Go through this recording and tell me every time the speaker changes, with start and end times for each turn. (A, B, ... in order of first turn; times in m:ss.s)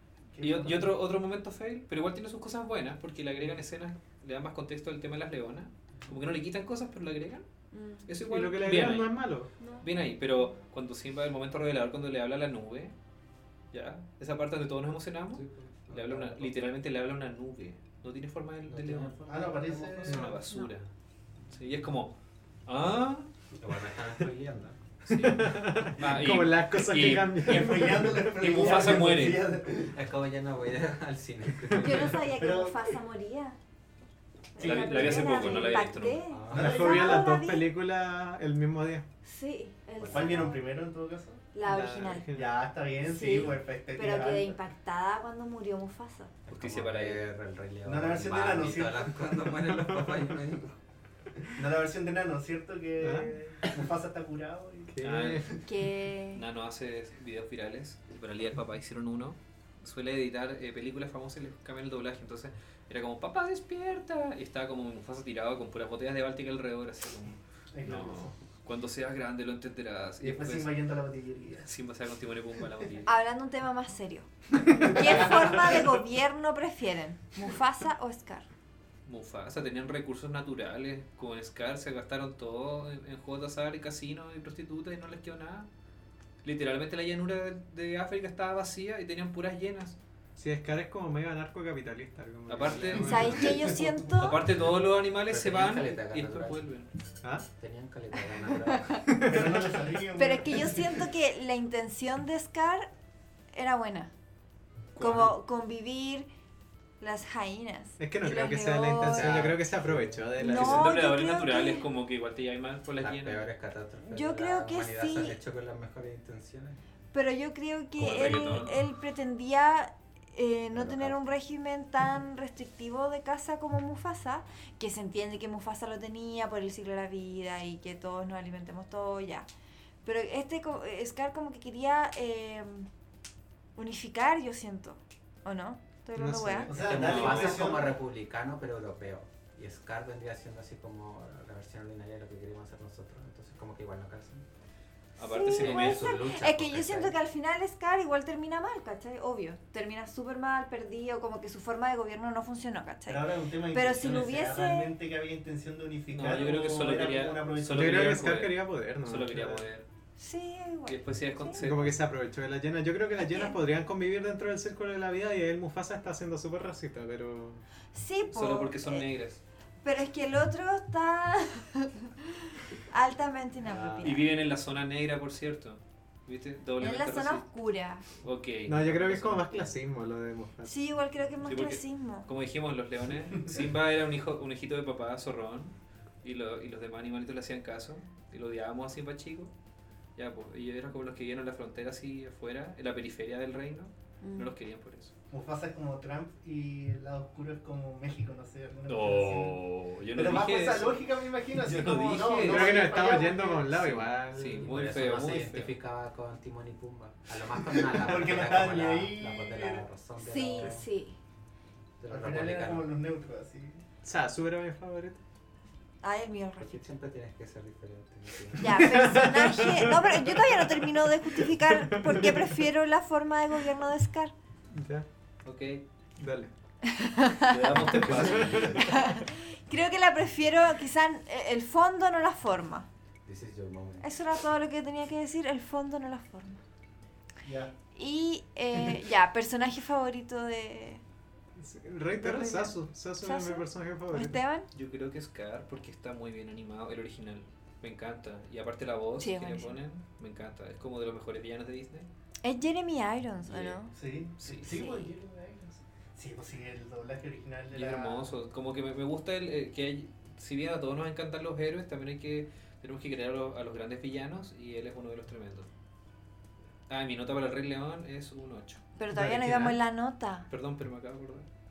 0:00.4-0:00.9 A
0:00.4-0:07.4 B
0:07.7-0:08.1 C
0:08.1-0:09.2 B
0:08.2-0:09.5 D
0:09.6-0:09.9 C
0:09.8-0:12.9 B
0:13.7-0:19.2 B
0:15.3-0:16.6 E
0:18.6-0:20.3 E
0:19.3-0:20.2 A
0:20.0-0:20.9 B
0:20.1-0:20.4 D
0:21.5-0:22.1 B
0:22.7-0:23.3 B
0:23.6-0:24.9 E
0:25.1-0:29.5 B
0:25.1-0:28.7 D
0:27.4-0:30.0 A
0:29.9-0:32.4 E
0:31.7-0:33.6 C
0:32.4-0:32.9 A
0:34.6-0:37.7 C
0:34.6-0:36.3 B
0:34.6-0:35.7 A
0:36.3-0:37.2 E
0:36.5-0:37.2 A
0:36.5-0:39.1 D
0:39.2-0:40.6 C
0:40.0-0:40.5 E
0:40.1-0:41.4 A
0:41.5-0:42.3 C
0:41.6-0:42.6 D
0:42.3-0:44.6 A
0:43.0-0:46.3 C
0:46.5-0:50.8 E
0:46.5-0:47.3 B
0:47.8-0:49.2 A
0:51.5-0:54.9 A
0:53.0-0:53.4 D
0:54.9-0:55.5 D
0:55.0-0:55.6 B
0:55.6-0:56.4 C
0:56.3-1:10.7 B
1:07.7-1:08.3 A
1:10.2-1:11.7 A
1:11.6-1:13.1 B
1:13.1-1:18.5 C
1:14.7-1:15.5 A
1:19.1-1:25.7 B
1:26.4-1:30.0 B
1:30.4-1:33.5 D
1:32.5-1:33.4 B
1:33.0-1:34.4 C
1:33.4-1:33.9 A
1:34.1-1:36.9 B
1:35.3-1:36.6 E
1:37.6-1:39.2 E
1:38.7-1:39.0 C
1:39.1-1:41.0 A
1:39.2-1:39.6 D
1:40.2-1:42.9 C
1:43.5-1:44.1 C
1:45.0-1:46.3 C
1:45.0-1:45.3 D
1:47.0-1:49.4 C
1:48.0-1:50.9 D
1:49.0-1:50.4 E
1:50.4-1:51.9 C
1:50.4-1:53.4 B
1:53.0-1:56.8 E
1:54.1-1:55.4 C
1:57.1-2:09.5 C
1:58.0-1:58.8 B
2:00.7-2:01.2 E
2:10.0-2:12.9 C
2:13.8-2:16.8 C
2:16.2-2:17.0 D
2:16.7-2:18.0 A
2:16.7-2:24.4 E
2:16.9-2:17.8 B
2:25.2-2:26.2 B
2:25.2-2:35.0 C
2:25.6-2:27.2 E
2:33.1-2:38.2 A
2:36.1-2:39.9 B
2:37.7-2:39.7 D
2:40.2-2:41.6 C
2:40.9-2:42.0 B
2:41.6-2:47.6 D
2:43.3-2:43.6 C
2:47.9-2:49.1 C
2:48.3-2:49.4 B
2:49.8-2:54.3 C
2:53.8-2:54.1 D
2:54.0-2:57.4 B
2:56.8-2:58.0 C
2:58.2-2:59.6 B
2:58.7-3:00.7 D
3:00.6-3:02.3 C
3:01.4-3:09.5 B
3:10.2-3:15.1 B
3:14.2-3:14.5 C
3:15.3-3:19.6 A
3:18.9-3:23.1 B
3:20.1-3:23.8 A
3:22.4-3:24.9 D
3:23.7-3:25.8 B
3:24.5-3:30.9 E
3:27.5-3:29.8 A
3:30.2-3:31.2 C
3:32.0-3:32.9 E
3:32.1-3:33.8 A
3:34.0-3:35.2 D
3:36.0-3:36.9 C
3:36.6-3:38.9 E
3:38.6-3:44.3 C
3:38.8-3:42.5 D
3:44.7-3:45.1 D
3:45.4-3:45.8 B
3:46.2-3:46.5 D
3:46.8-3:47.9 C
3:47.5-3:49.0 B
3:47.8-3:48.8 D
3:48.5-3:52.9 C
3:53.3-3:54.1 E
3:54.0-3:56.6 C
3:57.4-3:57.7 A
3:58.0-4:01.0 C
4:01.6-4:04.4 D
4:02.2-4:04.7 C
4:04.7-4:12.1 B
4:09.2-4:09.8 C
4:12.4-4:13.9 C
4:13.5-4:13.8 B
4:13.9-4:18.3 A
4:14.4-4:14.8 B
4:14.7-4:15.1 C
4:17.7-4:25.7 B
4:26.9-4:28.8 B
4:29.0-4:30.5 C
4:29.1-4:29.7 D
4:30.5-4:31.5 B